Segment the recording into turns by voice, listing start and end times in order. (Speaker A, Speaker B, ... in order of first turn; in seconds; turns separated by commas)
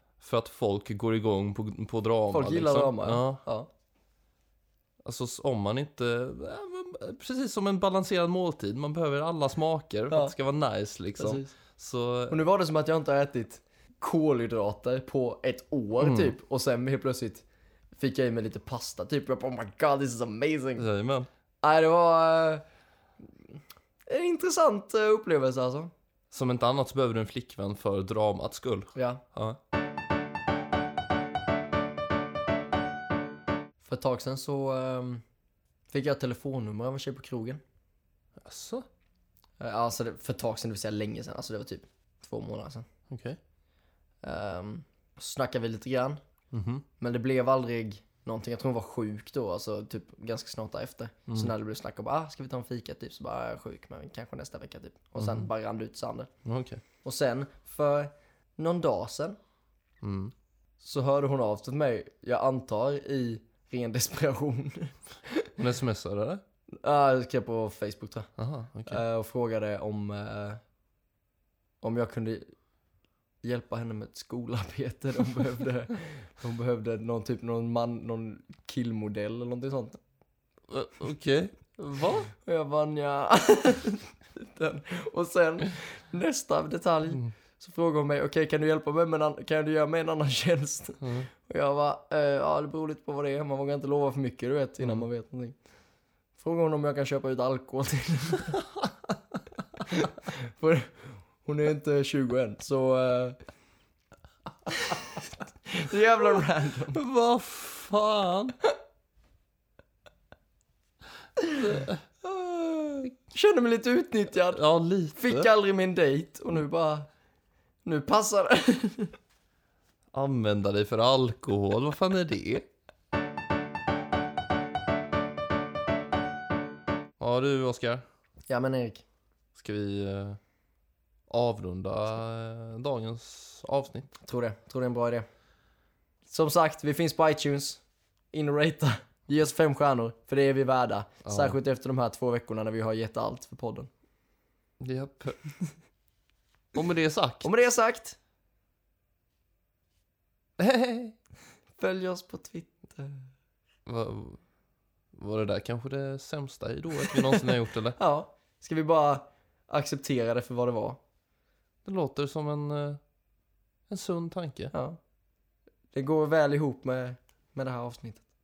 Speaker A: 0.2-3.4, Speaker B: 2.3-3.7, Speaker A: 5.0-12.4, Speaker B: 11.2-11.5, Speaker B: 12.3-17.4, Speaker A: 16.0-16.3, Speaker B: 18.0-20.9, Speaker A: 20.8-21.3, Speaker B: 21.6-22.6, Speaker B: 24.1-25.9, Speaker A: 26.3-29.6, Speaker B: 28.9-29.2, Speaker B: 33.8-35.2, Speaker B: 35.9-37.6, Speaker A: 38.4-38.9, Speaker B: 39.6-42.9, Speaker A: 43.1-43.4, Speaker B: 44.2-46.2, Speaker A: 46.5-46.8, Speaker B: 47.0-56.3, Speaker A: 55.2-55.5, Speaker A: 56.4-56.8, Speaker B: 57.0-59.4, Speaker A: 60.0-60.3, Speaker B: 60.8-65.5, Speaker A: 65.6-66.4, Speaker B: 66.7-68.3, Speaker A: 68.4-69.0, Speaker B: 68.8-70.6, Speaker B: 71.8-72.5, Speaker B: 73.4-80.0, Speaker A: 80.7-82.3, Speaker B: 82.4-95.5, Speaker A: 91.0-91.3, Speaker B: 96.4-98.6, Speaker B: 99.9-103.4, Speaker B: 104.7-107.0, Speaker A: 106.9-108.6, Speaker B: 111.4-114.6, Speaker A: 111.6-112.0, Speaker A: 114.5-115.5, Speaker B: 115.1-117.1, Speaker B: 117.8-119.1, Speaker A: 120.1-122.7, Speaker A: 127.2-128.0, Speaker B: 128.5-129.0, Speaker A: 129.5-130.4, Speaker A: 131.3-134.1, Speaker B: 134.2-135.2, Speaker B: 136.2-137.8, Speaker B: 138.3-143.9, Speaker A: 141.2-141.6, Speaker A: 144.8-145.4, Speaker A: 146.7-147.5, Speaker B: 147.4-148.2, Speaker A: 150.6-151.2, Speaker B: 151.8-153.2, Speaker A: 153.8-154.4, Speaker A: 155.1-158.0, Speaker B: 157.1-161.0, Speaker A: 161.8-163.0, Speaker A: 163.9-164.7, Speaker B: 164.7-165.0, Speaker B: 165.9-168.2